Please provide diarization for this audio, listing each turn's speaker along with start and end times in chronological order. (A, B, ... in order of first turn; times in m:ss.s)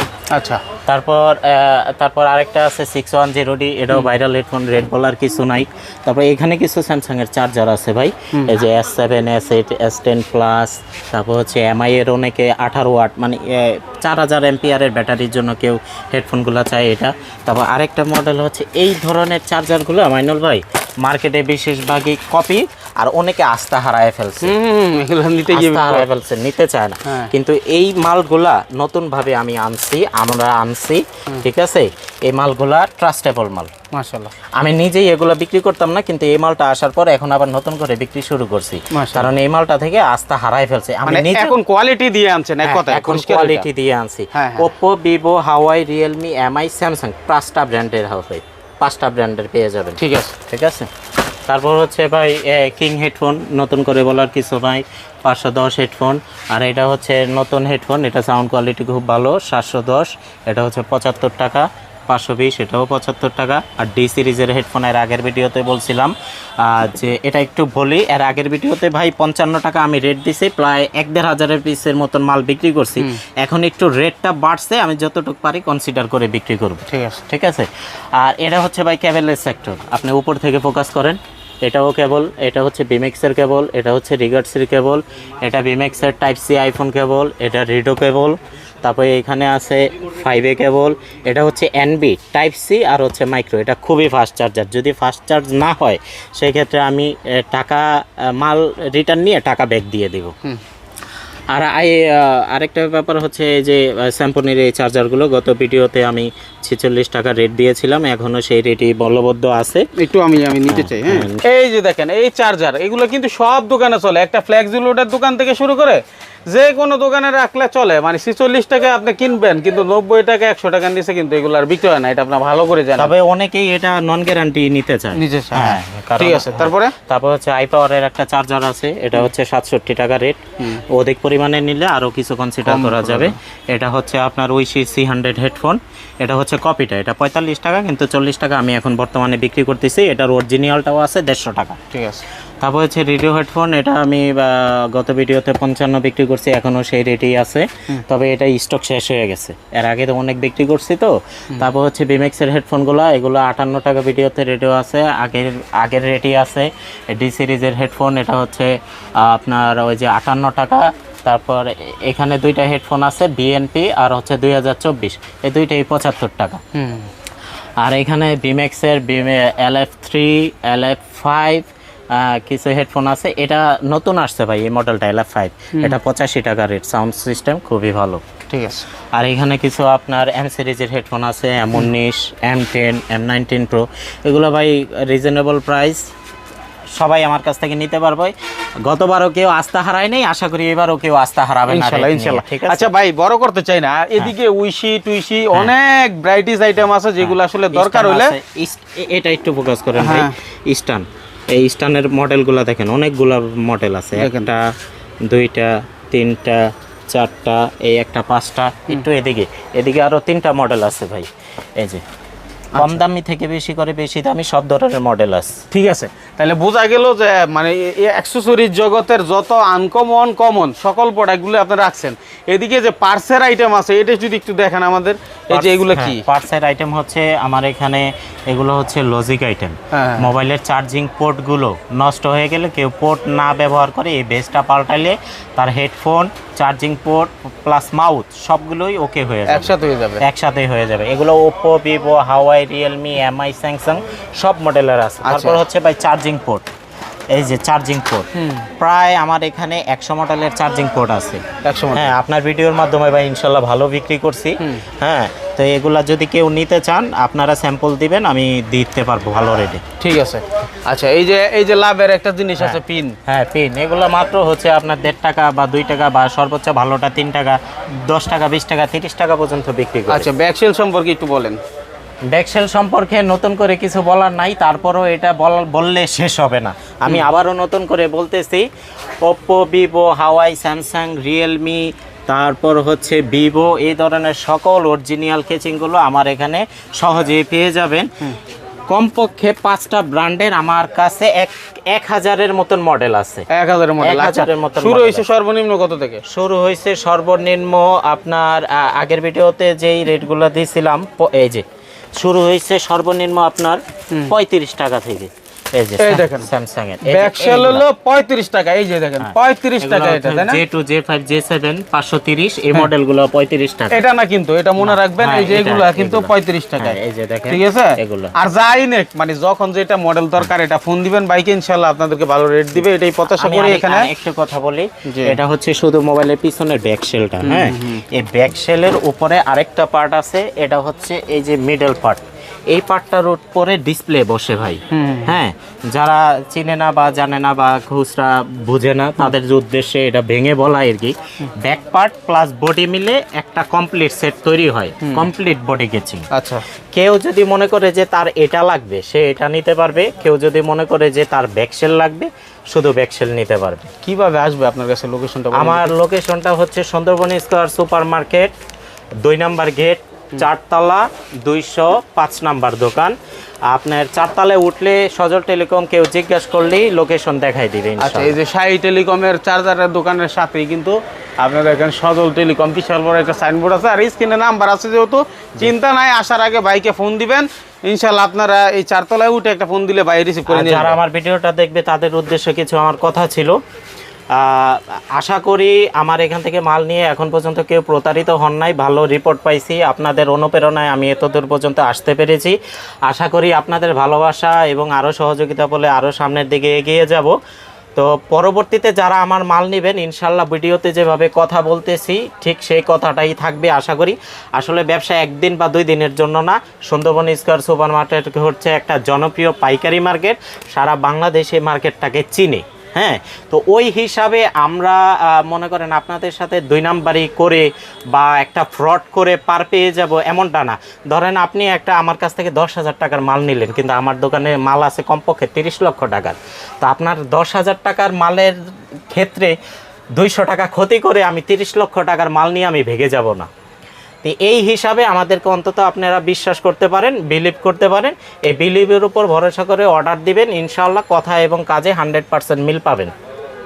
0:00.3-0:00.6 A
0:00.9-0:24.6 B
0:08.3-0:08.6 A
0:24.4-0:26.1 A
0:25.5-0:33.7 B
0:27.1-0:27.3 A
0:33.9-0:34.3 A
0:34.6-0:41.6 B
0:38.9-0:39.3 A
0:41.1-0:43.7 A
0:42.6-0:50.9 B
0:44.3-0:44.7 A
0:50.0-0:50.3 A
0:51.5-1:40.3 B
1:16.9-1:17.2 A
1:41.5-1:49.9 B
1:50.0-2:03.1 A
1:50.7-1:51.4 B
2:03.0-2:21.8 B
2:05.2-2:07.0 A
2:12.6-2:13.4 A
2:21.9-2:22.2 A
2:22.6-2:46.6 B
2:46.8-2:47.1 A
2:47.8-2:58.2 B
2:58.5-2:58.9 A
2:59.1-3:06.1 B
3:07.0-3:12.9 B
3:11.7-3:18.4 A
3:17.2-3:32.0 B
3:20.0-3:20.4 A
3:24.2-3:24.5 A
3:32.7-3:33.0 A
3:32.8-3:35.6 B
3:35.7-3:46.2 A
3:45.5-4:06.7 B
3:49.9-3:50.3 A
3:59.5-4:00.2 A
4:05.2-4:05.6 A
4:07.3-4:19.8 B
4:08.4-4:08.7 A
4:11.6-4:12.2 A
4:14.6-4:14.8 A
4:20.0-4:23.2 A
4:22.6-4:30.3 B
4:30.1-4:31.6 A
4:32.3-4:38.7 B
4:39.2-4:48.1 B
4:48.9-4:53.5 B
4:53.5-4:56.2 A
4:54.0-4:55.2 B
4:56.3-5:01.6 B
5:02.2-5:07.8 B
5:06.0-5:06.5 A
5:07.0-5:10.6 A
5:09.2-5:14.0 B
5:13.9-5:24.1 A
5:14.8-5:18.3 B
5:23.3-5:46.3 B
5:25.1-5:25.4 A
5:27.4-5:28.0 A
5:34.9-5:35.4 A
5:45.0-5:45.3 A
5:46.3-5:46.6 A
5:46.9-5:53.9 B
5:54.0-5:55.9 A
5:55.5-5:58.6 B
5:59.2-6:03.2 B
6:03.7-6:08.4 B
6:08.0-6:21.0 A
6:20.5-6:23.6 B
6:24.3-6:37.3 B
6:38.0-7:08.6 B
7:09.1-7:09.6 B
7:10.2-7:13.5 B
7:14.2-7:23.1 B